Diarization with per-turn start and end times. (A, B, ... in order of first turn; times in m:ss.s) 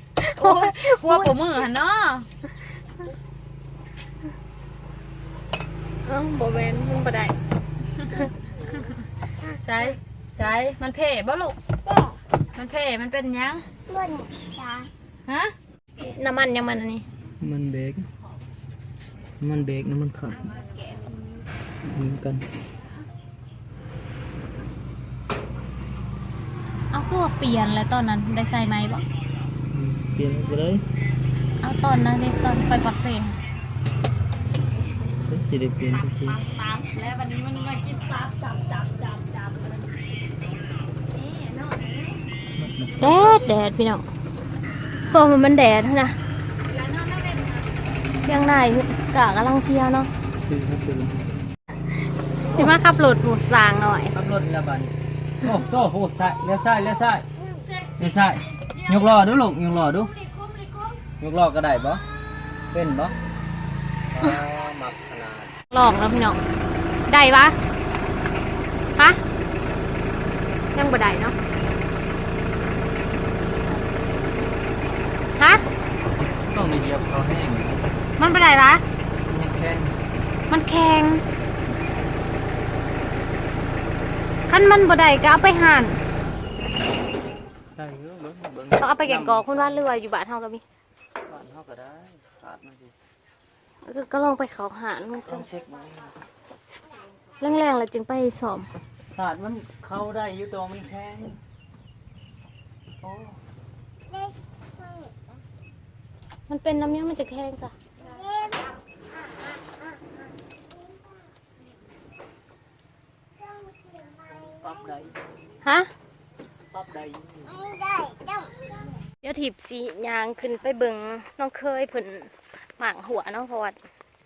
0:00.2-0:01.3 A
0:00.4-0:02.3 B
0:06.0-0:07.4 A
0:09.6-0:11.6 B
0:12.5-0:13.7 B
0:15.3-0:15.5 B
0:16.0-0:17.0 A
0:17.4-0:18.0 C
0:19.4-0:20.5 C
0:21.8-0:22.4 C
0:26.9-0:29.0 A
0:29.7-0:30.8 C
0:31.6-0:33.4 A
0:35.2-0:36.4 C
0:36.2-0:39.9 B
0:41.1-0:42.2 B
0:42.6-0:43.0 C
0:43.0-0:43.5 B
0:43.0-0:44.0 A
0:45.1-0:46.2 A
0:46.7-0:47.7 B
0:48.2-0:50.1 A
0:50.4-0:51.4 C
0:52.4-0:54.2 A
0:54.1-0:57.2 C
0:57.5-0:59.2 B
0:58.0-1:00.1 C
0:59.9-1:01.0 B
1:01.2-1:02.0 C
1:02.7-1:03.1 C
1:04.1-1:05.5 C
1:05.7-1:06.4 A
1:07.1-1:07.6 A
1:10.7-1:11.4 A
1:15.4-1:15.6 A
1:16.4-1:17.9 C
1:18.2-1:18.8 A
1:19.3-1:20.0 C
1:20.5-1:21.2 A
1:24.5-1:26.0 A
1:27.8-1:29.9 C
1:28.8-1:30.6 A
1:31.2-1:32.9 C
1:33.8-1:35.5 A
1:35.2-1:36.1 C
1:37.4-1:38.7 A
1:39.1-1:41.4 C
1:43.0-1:43.4 C
1:46.5-1:47.7 A
1:54.2-1:55.1 C
1:56.7-1:57.6 C
1:59.2-2:03.8 A